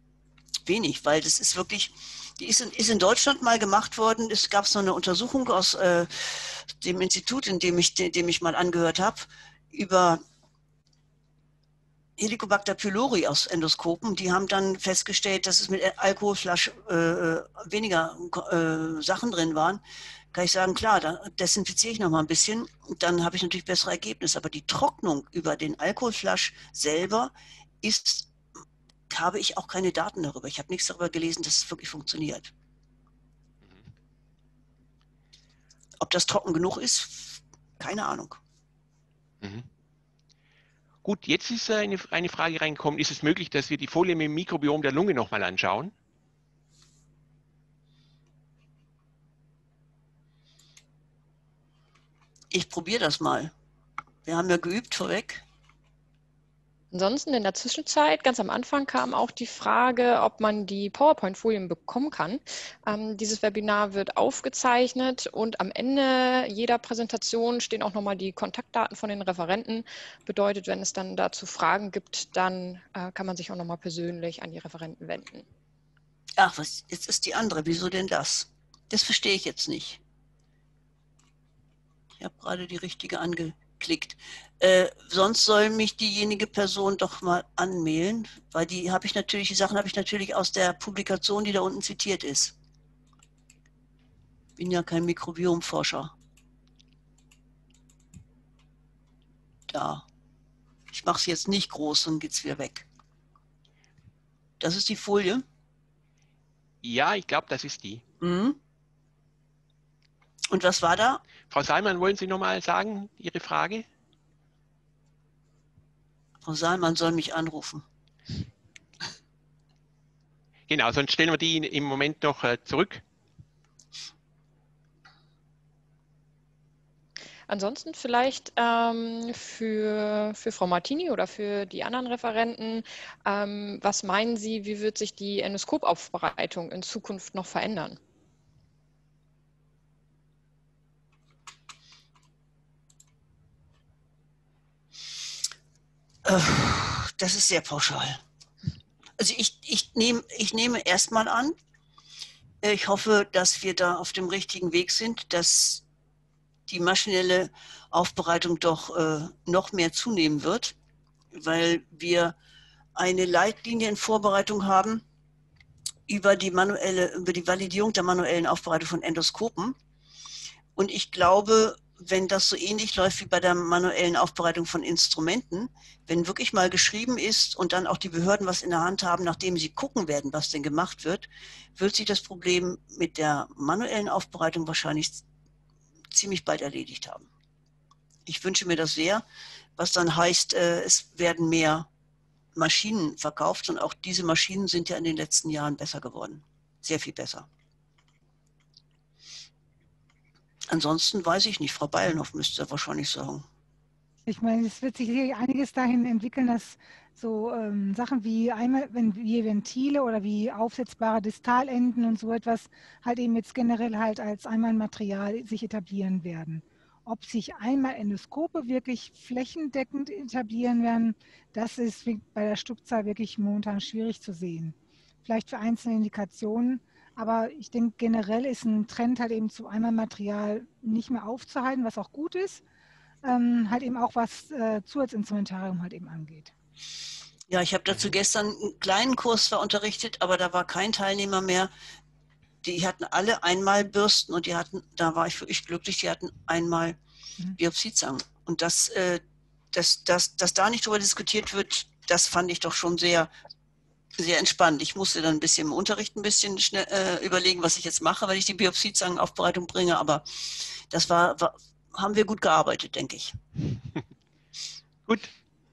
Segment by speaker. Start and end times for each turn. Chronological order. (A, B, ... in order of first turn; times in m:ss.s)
0:00.7-0:10.2 A
0:12.2-0:19.8 A
0:20.3-0:28.3 A
0:29.1-0:32.5 A
0:36.0-0:38.4 A
0:39.4-0:39.7 B
0:41.0-0:45.9 B
0:52.5-0:53.5 A
0:54.3-0:55.4 A
0:56.9-1:15.5 C
1:16.4-1:20.0 A
1:22.2-1:32.6 A
1:34.6-1:36.1 A
1:39.7-1:40.1 A
1:40.9-1:42.9 A
1:44.6-1:45.4 A
1:46.8-1:48.0 B
1:48.2-1:48.6 A
1:50.5-1:51.2 A
1:51.5-1:53.8 B
1:56.4-1:57.8 A
2:00.7-2:03.0 B
2:07.5-2:18.0 C
2:26.2-2:28.2 A
2:29.2-2:31.6 A
2:32.6-2:35.8 A
2:36.7-2:40.8 A
2:41.3-2:42.4 A
2:43.0-2:45.0 A
2:46.1-2:49.8 A
2:50.8-3:05.2 A
3:06.1-3:07.3 A
3:08.3-3:09.2 A
3:09.8-3:11.9 A
3:12.6-3:17.5 A
3:20.7-3:23.4 A
3:24.3-3:52.6 D
3:53.2-3:56.5 D
3:57.5-4:01.7 A
4:02.6-4:07.0 A
4:07.5-4:09.2 A
4:09.7-4:13.3 A
4:14.2-4:23.4 A
4:25.1-4:25.3 B